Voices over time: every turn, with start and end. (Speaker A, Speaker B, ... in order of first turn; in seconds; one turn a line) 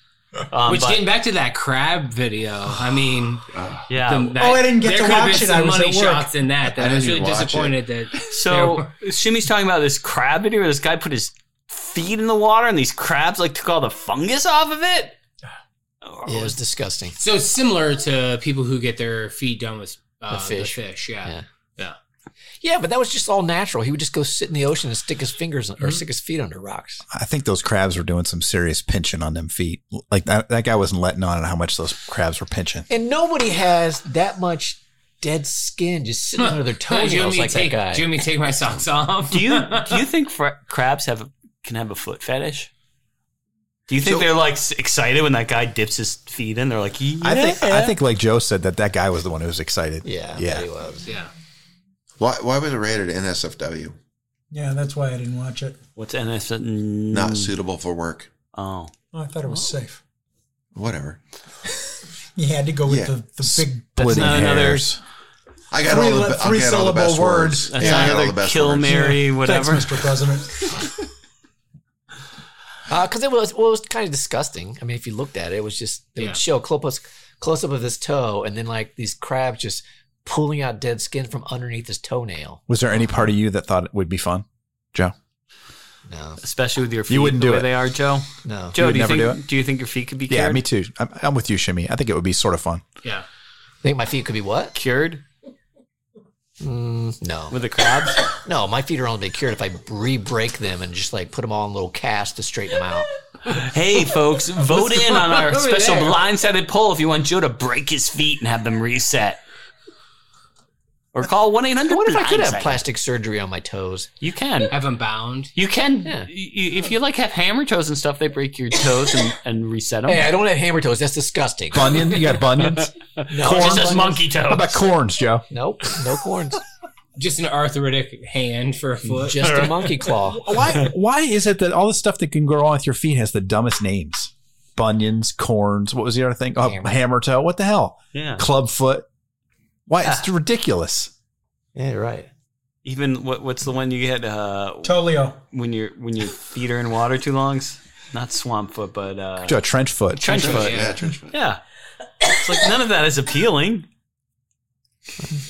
Speaker A: 0.5-1.1
Speaker B: 0.7-3.5
Speaker C: 3.6-3.8
Speaker A: 3.9-4.4
Speaker B: 4.0-8.9
Speaker D: 4.4-6.3
Speaker C: 6.7-7.8
Speaker A: 8.3-15.2
Speaker A: 16.1-16.6
Speaker E: 16.3-17.2
Speaker B: 17.2-22.0
Speaker E: 20.3-21.4
Speaker E: 22.6-27.0
Speaker F: 27.1-32.9
Speaker E: 32.9-38.1
Speaker B: 36.4-40.0
Speaker A: 39.3-42.7
Speaker A: 43.9-48.0
Speaker C: 44.0-44.3
Speaker F: 47.2-50.7
Speaker E: 50.0-51.1
Speaker B: 51.1-51.3
Speaker C: 52.2-54.0
Speaker D: 54.5-55.8
Speaker A: 56.0-57.5
Speaker C: 57.1-58.3
Speaker A: 58.5-58.9
Speaker D: 59.1-60.0
Speaker C: 60.8-61.2
Speaker D: 62.4-64.5
Speaker C: 62.9-63.1
Speaker F: 63.4-65.0
Speaker A: 64.0-64.9
Speaker C: 65.7-69.0
Speaker D: 65.8-68.2
Speaker A: 67.7-70.1
Speaker D: 68.8-70.8
Speaker E: 72.9-82.6
Speaker F: 82.7-85.1
Speaker E: 86.1-86.4
Speaker A: 86.4-90.6
Speaker F: 87.1-87.7
Speaker E: 88.5-88.8
Speaker F: 88.8-89.4
Speaker F: 90.3-92.8
Speaker E: 93.8-94.8
Speaker A: 94.8-95.2
Speaker E: 96.6-97.6
Speaker A: 97.5-98.3
Speaker E: 98.3-103.1
Speaker A: 103.5-109.4
Speaker B: 104.6-106.2
Speaker A: 111.1-112.8
Speaker E: 111.9-114.1
Speaker A: 114.2-114.7
Speaker B: 114.7-115.5
Speaker A: 115.5-120.3
Speaker E: 120.1-122.0
Speaker F: 121.7-122.9
Speaker E: 123.3-124.2
Speaker A: 123.3-124.8
Speaker F: 123.4-125.5
Speaker E: 125.5-126.6
Speaker B: 127.2-129.8
Speaker E: 129.2-130.7
Speaker A: 129.4-129.7
Speaker F: 130.4-139.1
Speaker E: 136.7-136.9
Speaker A: 138.1-138.4
Speaker F: 139.9-141.1
Speaker E: 141.8-142.3
Speaker A: 142.8-149.6
Speaker D: 144.8-145.4
Speaker F: 149.4-150.5
Speaker A: 150.2-151.6
Speaker C: 150.3-151.4
Speaker B: 150.3-151.1
Speaker A: 152.2-153.9